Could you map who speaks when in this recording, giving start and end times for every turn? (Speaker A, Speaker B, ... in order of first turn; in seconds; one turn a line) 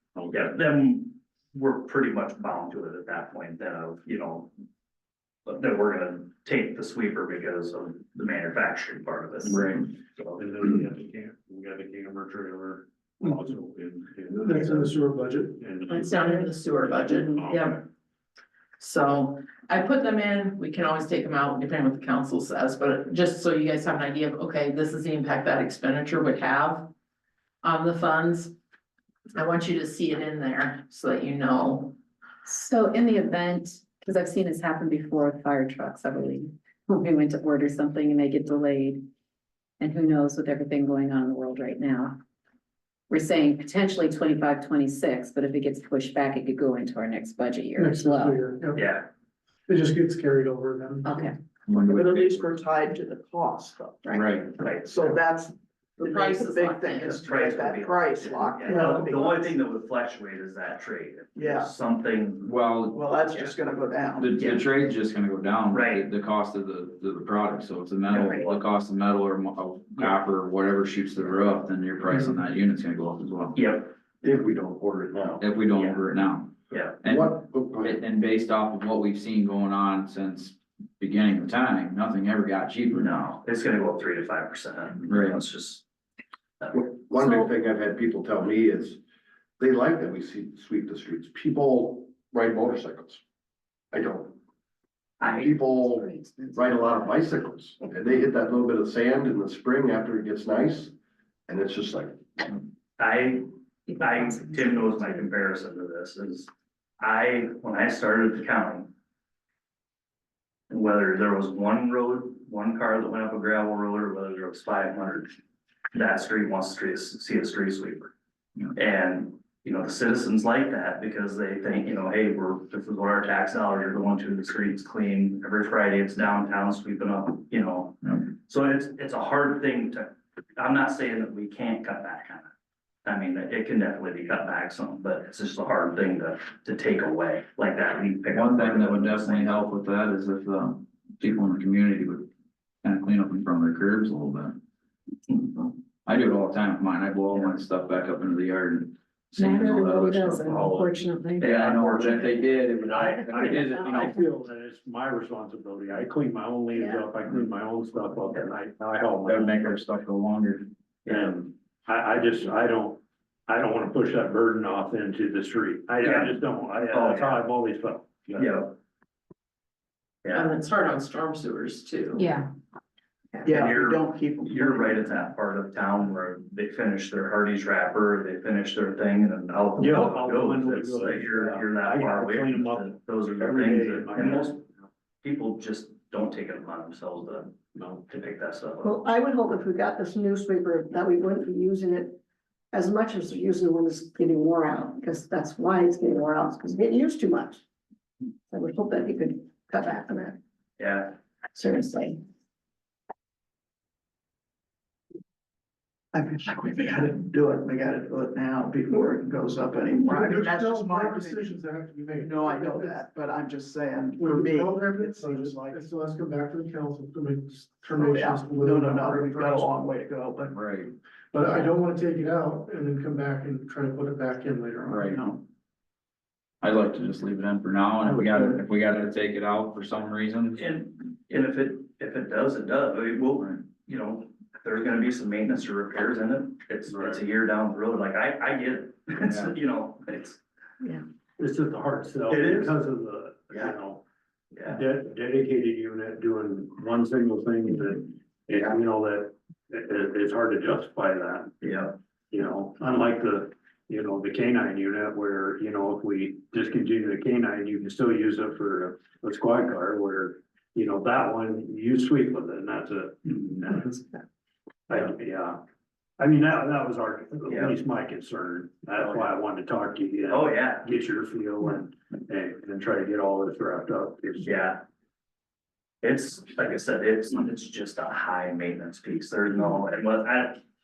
Speaker A: 0.1-0.6
Speaker B: 0.3-4.5
Speaker B: 5.5-10.4
Speaker C: 9.4-9.9
Speaker A: 10.3-14.9
Speaker D: 14.3-15.6
Speaker A: 15.6-17.8
Speaker E: 15.9-17.8
Speaker E: 18.8-26.9
Speaker E: 27.6-28.5
Speaker E: 29.3-32.0
Speaker F: 32.4-39.0
Speaker F: 39.8-42.2
Speaker F: 43.1-48.4
Speaker D: 47.8-48.9
Speaker B: 48.8-49.1
Speaker D: 49.7-51.3
Speaker F: 51.0-51.4
Speaker C: 51.7-52.5
Speaker G: 51.7-59.6
Speaker C: 54.1-54.5
Speaker B: 54.6-55.2
Speaker E: 56.0-57.2
Speaker B: 57.0-62.5
Speaker G: 61.3-61.7
Speaker C: 62.4-63.4
Speaker G: 62.9-64.5
Speaker C: 64.2-73.7
Speaker B: 64.4-64.6
Speaker B: 65.7-66.1
Speaker B: 68.1-68.6
Speaker G: 68.2-68.4
Speaker B: 73.5-73.9
Speaker H: 74.2-75.4
Speaker C: 75.4-76.5
Speaker B: 75.7-76.0
Speaker B: 76.7-77.0
Speaker C: 77.0-83.1
Speaker H: 77.0-78.0
Speaker B: 82.9-85.8
Speaker C: 85.1-85.4
Speaker B: 86.6-86.9
Speaker H: 86.7-89.0
Speaker H: 89.6-93.2
Speaker H: 93.9-94.4
Speaker H: 95.2-100.9
Speaker H: 101.5-102.2
Speaker B: 103.0-106.5
Speaker B: 107.0-108.9
Speaker B: 110.7-115.4
Speaker B: 115.9-118.1
Speaker B: 118.7-132.5
Speaker B: 133.0-139.6
Speaker C: 138.3-142.3
Speaker C: 142.8-144.6
Speaker C: 146.1-154.2
Speaker F: 149.4-151.3
Speaker B: 151.5-152.0
Speaker A: 152.8-159.7
Speaker C: 159.2-160.7
Speaker B: 161.0-161.5
Speaker A: 161.1-168.6
Speaker B: 166.0-167.4
Speaker B: 168.4-168.7
Speaker B: 170.2-170.5
Speaker E: 170.3-172.3
Speaker G: 173.4-175.2
Speaker B: 173.5-184.6
Speaker A: 179.8-184.9
Speaker B: 185.2-189.0
Speaker A: 187.7-188.1
Speaker I: 188.8-192.2
Speaker I: 192.7-197.6
Speaker I: 198.5-200.4
Speaker B: 200.8-201.1
Speaker I: 201.5-202.2
Speaker G: 206.1-211.5
Speaker D: 210.0-213.0
Speaker G: 212.2-215.8
Speaker D: 214.2-219.8
Speaker G: 217.9-220.6
Speaker C: 220.5-220.9
Speaker D: 221.3-225.0
Speaker C: 224.9-225.2
Speaker G: 225.1-225.4
Speaker C: 226.6-230.6
Speaker B: 230.6-240.4
Speaker A: 236.8-237.2
Speaker C: 239.2-239.5
Speaker A: 241.4-244.0
Speaker B: 242.3-242.8
Speaker B: 244.5-244.8
Speaker A: 244.7-251.5
Speaker B: 251.6-251.9
Speaker A: 252.3-264.2
Speaker A: 264.9-265.6
Speaker A: 266.2-274.6
Speaker B: 267.5-267.7
Speaker B: 269.0-269.3
Speaker B: 270.3-270.9
Speaker B: 274.4-274.8
Speaker B: 276.0-280.6